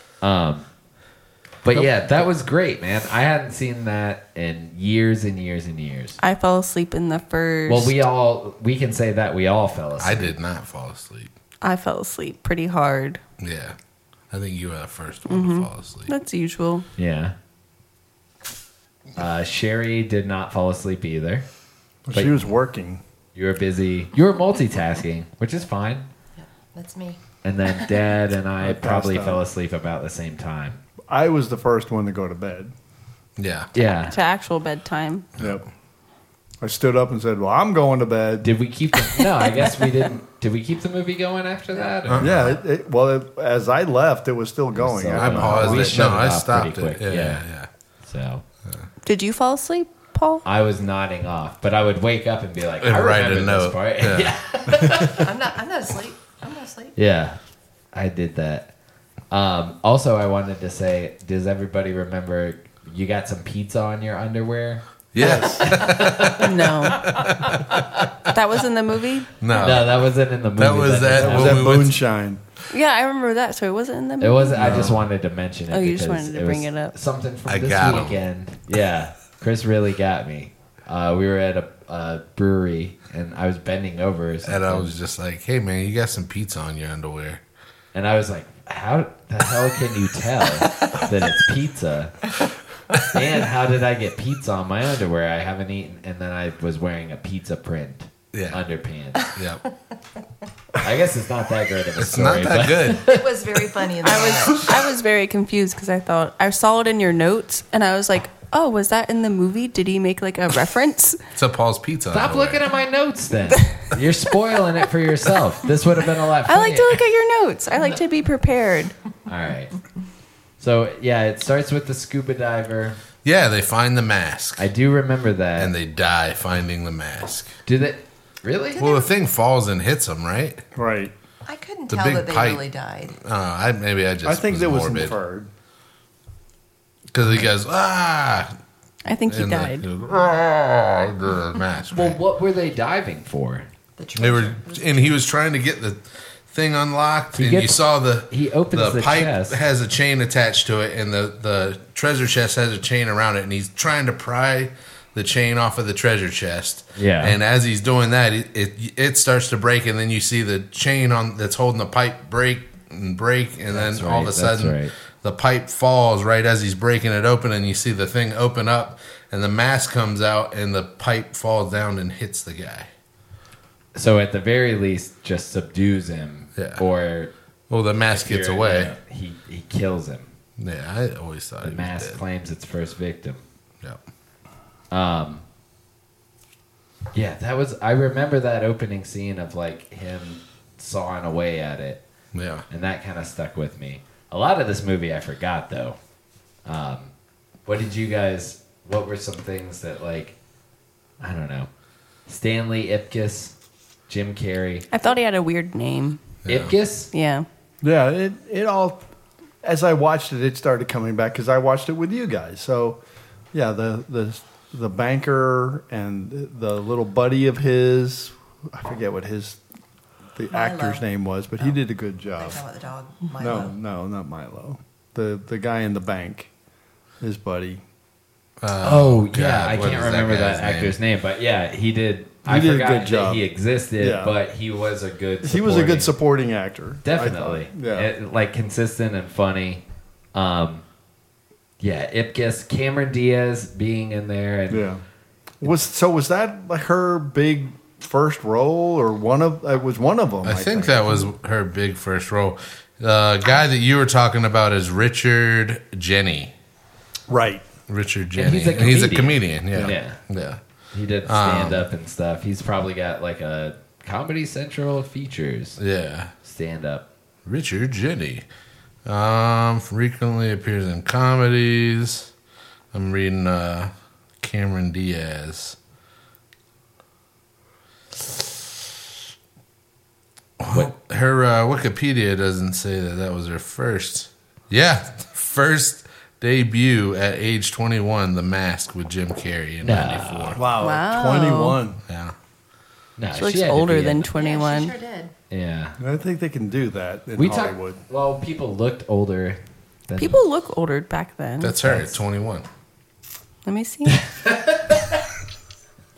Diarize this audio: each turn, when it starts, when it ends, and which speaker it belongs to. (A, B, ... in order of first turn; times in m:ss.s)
0:00.2-0:00.7 A
0:01.6-0:06.2 A
0:06.2-0:08.0 B
0:07.7-0:10.3 A
0:10.0-0:11.3 C
0:11.6-0:13.2 B
0:13.4-0:13.8 C
0:14.3-0:16.1 C
0:15.3-0:16.9 B
0:17.0-0:17.3 A
0:19.2-0:21.4 A
0:22.0-0:23.0 D
0:22.1-0:22.4 A
0:23.3-0:26.1 A
0:26.4-0:27.2 E
0:27.4-0:30.8 A
0:28.6-0:29.4 D
0:31.1-0:32.7 D
0:33.4-0:33.7 C
0:33.7-0:34.2 A
0:34.0-0:35.3 B
0:35.4-0:35.6 D
0:36.6-0:38.5 D
0:38.4-0:42.6 A
0:42.0-0:42.5 C
0:42.2-0:46.1 D
0:44.7-0:47.4 A
0:45.0-0:47.7 C
0:48.0-0:48.4 A
0:49.0-0:50.4 B
0:50.4-0:55.3 A
0:52.8-0:54.3 C
0:55.1-0:56.9 E
0:57.0-0:57.4 A
0:57.9-0:58.7 A
0:59.3-1:07.1 A
1:05.1-1:08.0 C
1:05.2-1:05.7 D
1:06.4-1:07.1 B
1:08.3-1:09.4 B
1:09.4-1:12.0 C
1:09.5-1:11.7 A
1:11.1-1:12.4 D
1:12.7-1:14.9 B
1:14.2-1:24.9 A
1:14.6-1:15.0 C
1:15.7-1:16.9 B
1:17.5-1:18.2 C
1:24.4-1:27.4 C
1:27.9-1:32.1 A
1:33.1-1:39.3 A
1:38.3-1:38.6 C
1:39.3-1:39.6 C
1:40.8-1:43.3 A
1:42.0-1:43.2 C
1:43.1-1:44.8 E
1:44.0-1:51.2 B
1:51.3-1:52.6 C
1:52.1-1:57.0 A
1:56.4-1:58.9 B
1:59.3-1:59.8 A
2:00.6-2:03.0 A
2:03.2-2:04.7 C
2:04.6-2:05.7 A
2:05.6-2:07.5 C
2:07.6-2:08.8 A
2:08.8-2:09.1 E
2:08.8-2:10.6 C
2:10.7-2:11.1 D
2:11.4-2:13.2 E
2:11.9-2:12.6 C
2:13.2-2:15.2 C
2:14.2-2:15.5 D
2:17.1-2:18.5 C
2:19.0-2:19.9 B
2:19.3-2:22.2 C
2:21.9-2:23.7 A
2:24.0-2:25.3 E
2:24.2-2:52.9 C
2:27.3-2:29.6 A
2:37.0-2:37.4 A
2:43.7-2:44.9 A
2:53.9-2:57.3 A
2:56.6-2:56.8 C
2:57.7-2:58.9 C
2:58.1-3:00.3 A
3:00.6-3:02.2 C
3:01.6-3:03.4 A
3:04.9-3:05.4 A
3:07.1-3:12.0 A
3:12.3-3:12.6 C
3:12.7-3:16.0 A
3:16.6-3:17.1 A
3:17.6-3:20.4 A
3:21.2-3:21.7 A
3:22.3-3:23.5 A
3:24.1-3:24.9 A
3:24.9-3:26.2 B
3:26.4-3:26.7 C
3:26.5-3:27.1 A
3:27.1-3:27.5 B
3:27.8-3:29.0 D
3:29.6-3:33.0 D
3:33.5-3:39.6 D
3:40.3-3:42.6 D
3:40.5-3:41.1 E
3:42.4-3:43.7 E
3:43.4-3:46.5 D
3:47.2-3:47.8 D
3:48.6-3:51.0 C
3:48.8-3:56.1 A
3:52.4-3:53.5 D
3:54.0-3:54.3 D
3:55.4-3:58.1 D
3:57.0-3:59.8 A
4:00.3-4:00.8 A
4:01.8-4:04.9 A
4:04.7-4:05.0 D
4:05.6-4:11.3 D
4:10.4-4:16.5 C
4:17.3-4:17.6 D
4:17.9-4:20.6 C
4:18.4-4:20.2 A
4:20.9-4:25.8 A
4:21.2-4:21.9 C
4:25.8-4:26.3 C
4:26.4-4:27.1 A
4:27.4-4:28.4 C
4:29.0-4:32.3 C
4:32.9-4:35.8 C
4:40.6-4:50.7 C
4:49.8-4:50.6 A
4:50.6-4:52.0 D
4:50.8-4:51.8 B
4:52.1-4:52.3 C
4:53.2-4:54.3 A
4:53.3-4:55.0 B
4:54.3-4:55.3 E
4:55.5-4:56.0 A
4:56.0-4:58.0 D
4:57.4-5:00.4 A
5:00.2-5:01.8 B
5:01.6-5:02.6 C
5:01.8-5:02.2 A
5:03.6-5:04.2 B
5:04.1-5:05.2 A